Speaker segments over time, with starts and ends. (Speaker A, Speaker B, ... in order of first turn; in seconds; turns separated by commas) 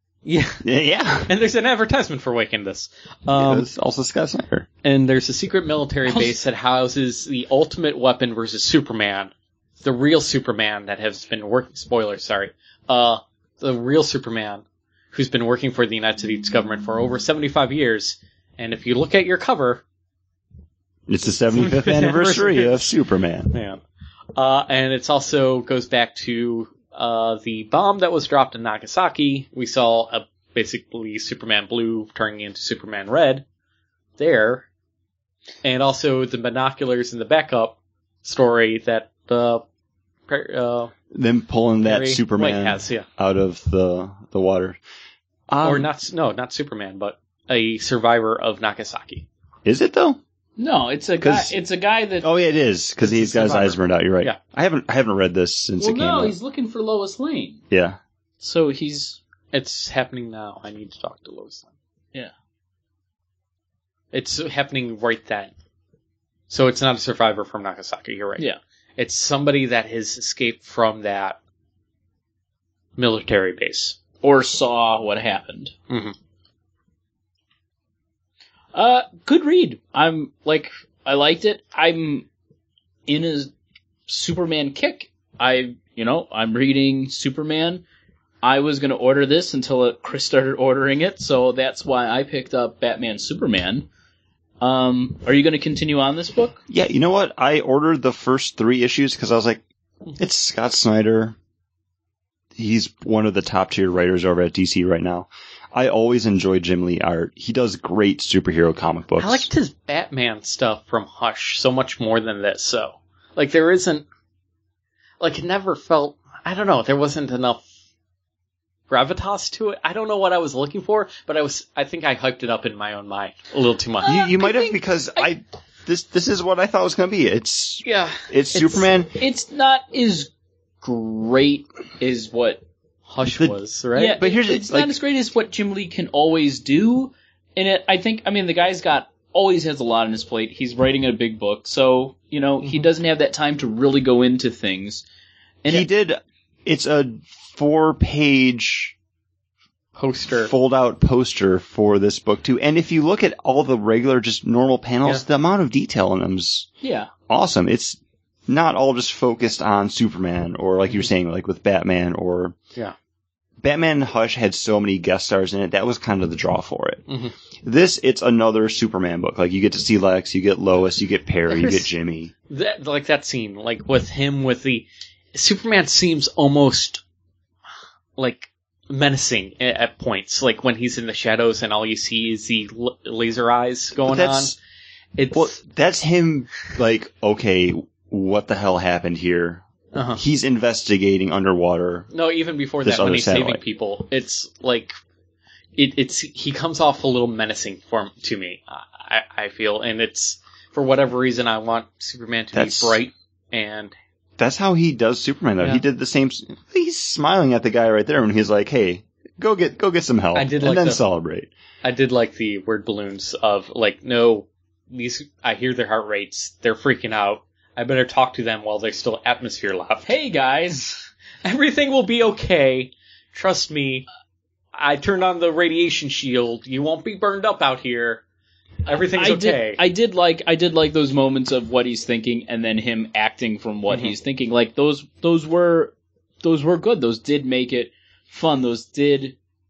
Speaker A: 0.2-0.6, Speaker B: 0.6-1.3, Speaker A: 1.3-3.7, Speaker B: 3.3-4.7, Speaker A: 4.8-19.8, Speaker B: 21.1-23.5, Speaker A: 21.5-22.9, Speaker A: 23.5-23.8, Speaker A: 24.4-33.4, Speaker A: 34.2-34.7, Speaker A: 35.6-39.6, Speaker A: 40.3-40.9, Speaker B: 41.1-44.8, Speaker A: 41.8-43.1, Speaker B: 45.5-45.9, Speaker A: 45.6-49.3, Speaker B: 49.6-50.2, Speaker C: 50.6-52.3, Speaker B: 51.2-51.5, Speaker B: 52.2-56.4, Speaker A: 53.0-54.4, Speaker C: 55.8-57.6, Speaker B: 57.7-58.0, Speaker C: 58.4-59.2, Speaker A: 59.5-61.7, Speaker A: 64.1-65.5, Speaker A: 66.5-71.4, Speaker A: 73.0-74.0, Speaker C: 74.2-75.8, Speaker C: 78.7-82.3, Speaker C: 83.1-83.5, Speaker C: 84.1-87.8, Speaker C: 88.4-93.9, Speaker C: 94.6-96.6, Speaker B: 96.7-99.6, Speaker B: 100.2-101.4, Speaker B: 102.6-109.5, Speaker A: 109.2-114.0, Speaker A: 115.2-117.6, Speaker A: 118.9-124.4, Speaker B: 124.0-129.1, Speaker C: 124.2-124.7, Speaker A: 127.8-128.3, Speaker C: 128.6-132.6, Speaker A: 133.1-134.2, Speaker C: 134.0-145.0, Speaker B: 134.1-134.9, Speaker B: 145.7-148.9, Speaker A: 150.0-150.5, Speaker B: 150.4-156.7, Speaker C: 156.8-157.1, Speaker B: 157.3-162.6, Speaker B: 163.6-167.1, Speaker A: 167.1-167.3, Speaker B: 167.6-172.3, Speaker A: 171.5-171.8, Speaker A: 172.5-177.0, Speaker A: 178.2-184.5, Speaker B: 184.1-184.6, Speaker A: 185.2-185.5, Speaker B: 185.3-192.1, Speaker A: 189.9-190.2, Speaker A: 192.1-194.9, Speaker B: 192.8-193.6, Speaker A: 195.8-203.9, Speaker B: 202.5-203.0, Speaker B: 204.4-211.5, Speaker A: 210.3-211.0, Speaker A: 211.8-220.1, Speaker C: 220.1-221.1, Speaker A: 221.4-224.1, Speaker A: 224.8-228.2, Speaker A: 228.9-229.8, Speaker C: 229.0-239.3